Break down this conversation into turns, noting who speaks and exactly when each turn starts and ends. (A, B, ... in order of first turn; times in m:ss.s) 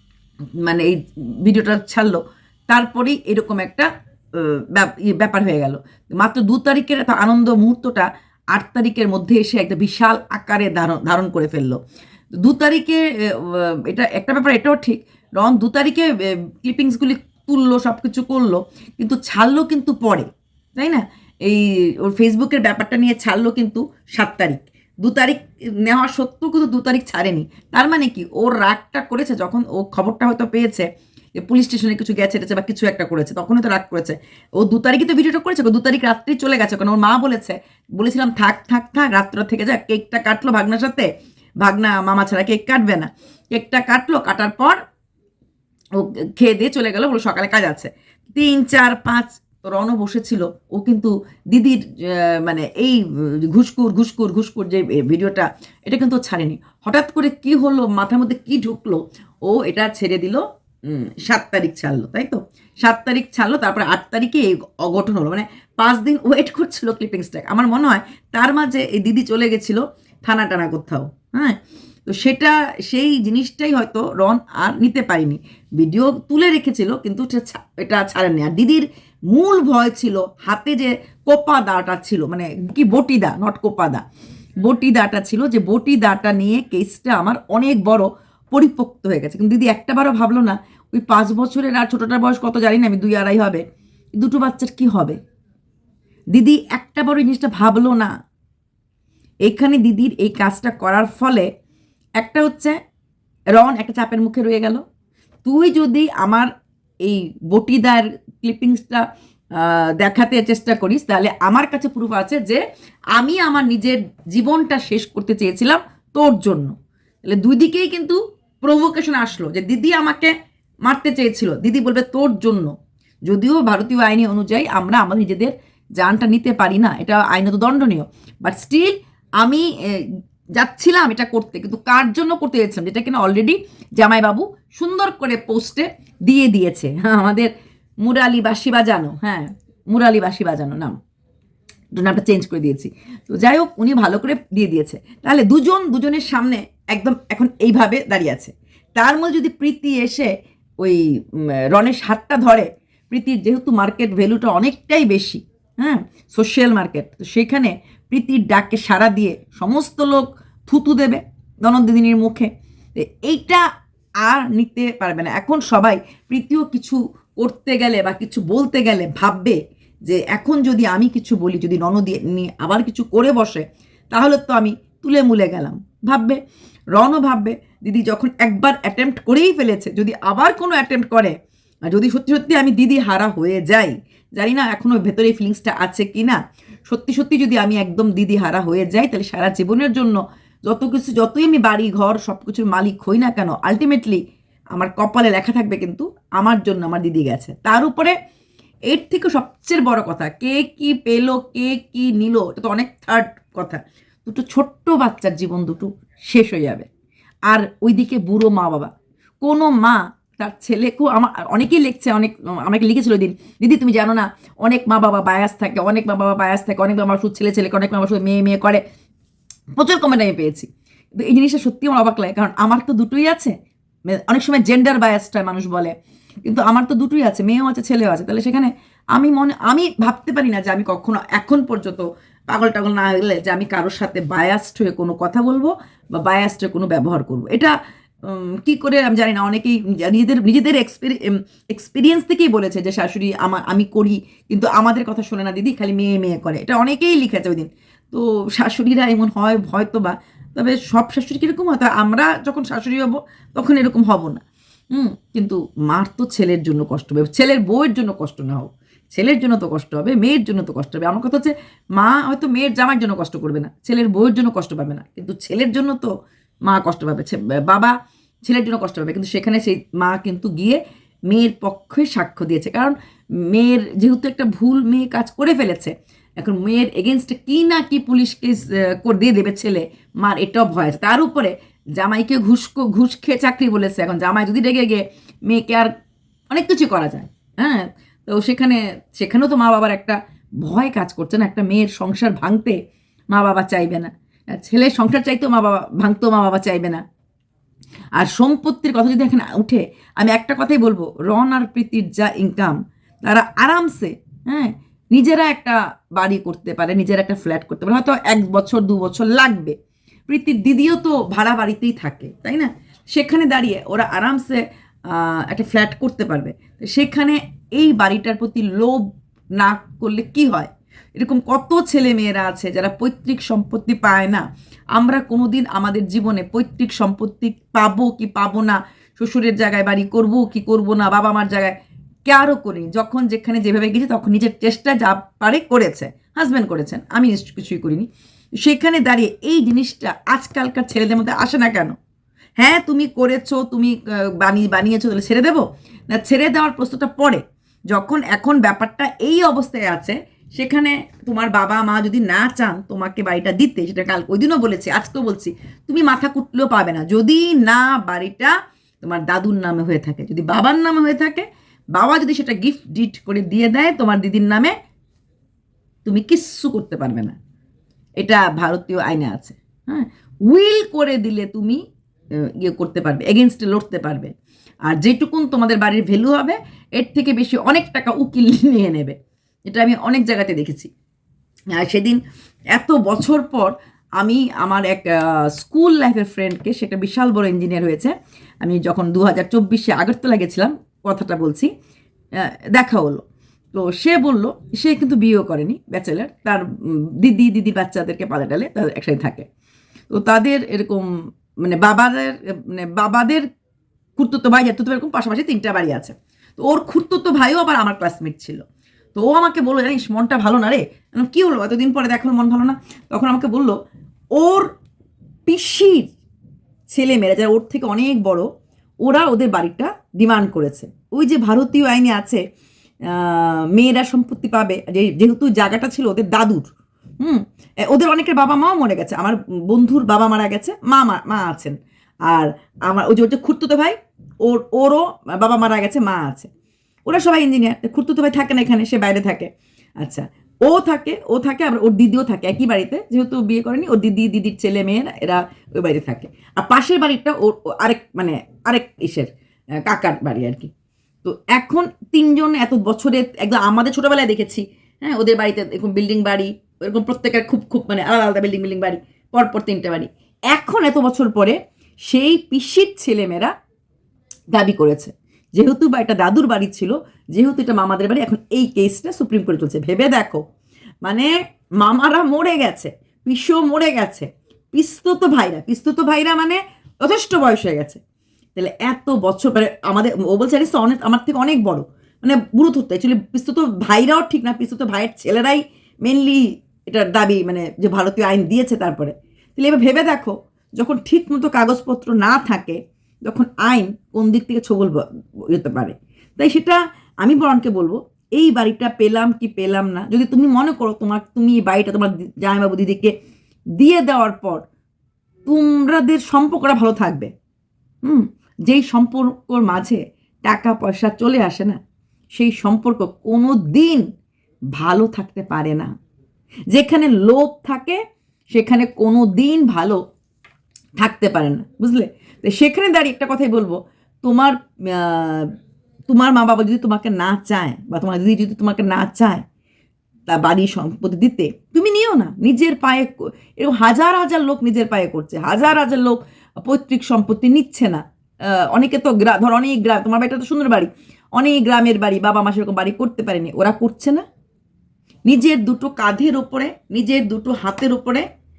0:00.6-0:11.8 A
0:12.4-0:41.1 A
0:41.6-0:44.8 A
0:46.0-1:24.0 A
1:24.6-1:33.6 A
1:34.2-1:35.2 A
1:36.3-1:38.1 A
1:39.4-1:41.5 A
1:42.2-1:42.8 A
1:43.5-1:44.8 A
1:45.4-1:46.5 A
1:47.0-1:49.0 A
1:49.6-1:52.6 A
1:53.2-1:56.7 A
1:57.3-2:00.3 A
2:00.8-2:02.7 A
2:03.3-2:17.5 A
2:18.0-2:21.0 A
2:22.0-2:43.6 A
2:44.2-2:56.4 A
2:57.0-3:01.3 A
3:01.9-3:14.2 A
3:14.7-3:18.1 A
3:18.9-3:26.9 A
3:27.5-3:38.8 A
3:39.8-3:43.5 A
3:44.1-3:45.9 A
3:46.4-3:57.7 A
3:58.3-4:26.1 A
4:26.6-4:32.9 A
4:33.5-4:45.9 A
4:46.5-4:52.8 A
4:53.3-4:57.0 A
4:58.2-5:09.8 A
5:10.3-5:24.4 A
5:24.9-5:38.1 A
5:38.6-5:41.9 A
5:42.6-6:04.8 A
6:06.0-6:07.4 A
6:08.2-6:11.8 A
6:12.4-6:14.3 A
6:14.8-6:19.2 A
6:19.7-6:20.9 A
6:21.8-6:22.2 A
6:22.7-6:31.7 A
6:32.4-6:33.2 A
6:33.7-6:39.4 A
6:40.1-6:43.4 A
6:44.2-6:48.6 A
6:49.1-6:53.8 A
6:54.4-6:54.7 A
6:55.5-6:56.1 A
6:56.9-6:58.5 A
6:59.0-7:02.4 A
7:03.0-7:11.8 A
7:12.3-7:16.5 A
7:17.1-7:19.5 A
7:20.0-7:30.7 A
7:31.2-7:43.5 A
7:44.5-7:50.4 A
7:51.0-7:58.0 A
7:58.6-8:23.1 A
8:23.8-8:24.6 A
8:25.4-8:27.3 A
8:28.0-8:31.8 A
8:32.3-8:34.0 A
8:34.7-8:35.9 A
8:36.7-8:38.0 A
8:38.5-8:40.0 A
8:41.0-8:45.5 A
8:46.1-8:49.4 A
8:50.3-9:04.2 A
9:05.3-9:08.2 A